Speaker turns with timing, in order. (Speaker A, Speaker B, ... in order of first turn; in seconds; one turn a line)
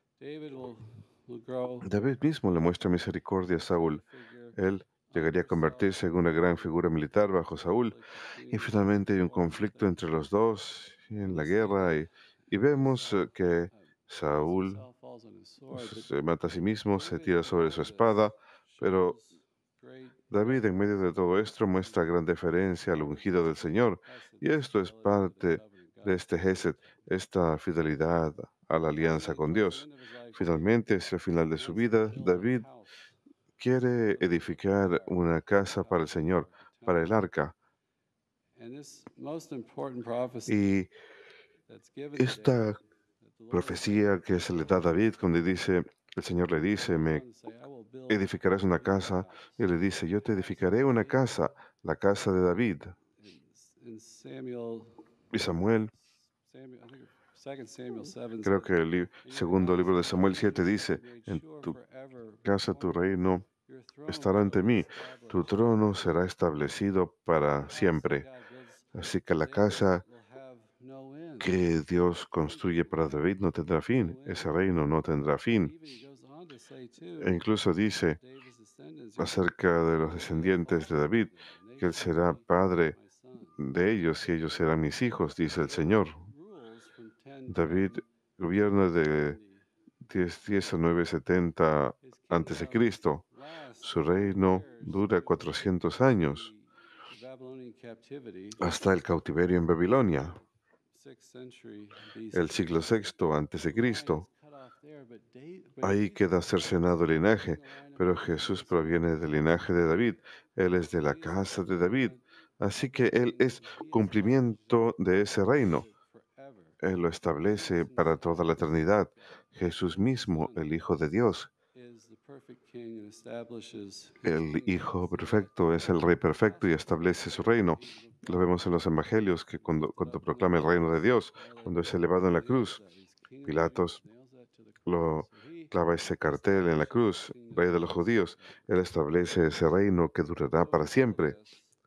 Speaker A: 0.2-1.9
Speaker B: 1.8-4.0
Speaker A: 3.7-6.7
Speaker B: 4.6-8.0
Speaker A: 7.6-10.2
Speaker B: 8.5-14.8
Speaker A: 11.2-16.1
Speaker B: 15.7-19.2
Speaker A: 16.9-21.7
Speaker B: 20.3-32.7
Speaker A: 23.1-23.5
Speaker A: 24.1-27.1
Speaker A: 29.0-30.8
Speaker A: 31.4-32.9
Speaker B: 33.6-37.5
Speaker A: 34.1-37.1
Speaker A: 38.6-40.6
Speaker B: 40.5-40.9
Speaker A: 41.7-42.8
Speaker B: 42.2-42.8
Speaker A: 43.3-45.1
Speaker B: 43.5-47.2
Speaker A: 46.9-51.6
Speaker B: 48.1-52.9
Speaker A: 53.2-55.0
Speaker B: 55.3-55.9
Speaker A: 56.5-58.7
Speaker B: 58.4-61.8
Speaker A: 59.2-65.6
Speaker B: 62.5-63.5
Speaker B: 64.1-68.3
Speaker A: 67.6-71.5
Speaker B: 69.0-70.0
Speaker B: 71.4-75.7
Speaker A: 72.6-73.3
Speaker A: 74.0-74.6
Speaker A: 75.6-77.4
Speaker B: 77.2-78.2
Speaker A: 78.1-83.6
Speaker B: 79.2-83.0
Speaker B: 83.6-86.2
Speaker A: 85.5-88.0
Speaker B: 87.5-89.4
Speaker A: 89.1-89.5
Speaker B: 90.1-93.2
Speaker A: 92.0-98.6
Speaker B: 93.8-96.5
Speaker B: 98.6-100.4
Speaker A: 100.9-103.1
Speaker B: 102.3-104.3
Speaker A: 103.7-109.5
Speaker B: 105.8-115.9
Speaker A: 111.0-112.2
Speaker A: 112.8-116.8
Speaker B: 116.8-121.5
Speaker A: 117.5-120.8
Speaker A: 121.7-128.6
Speaker B: 124.2-132.8
Speaker A: 129.4-138.7
Speaker B: 133.4-134.0
Speaker B: 134.9-141.4
Speaker A: 140.6-141.6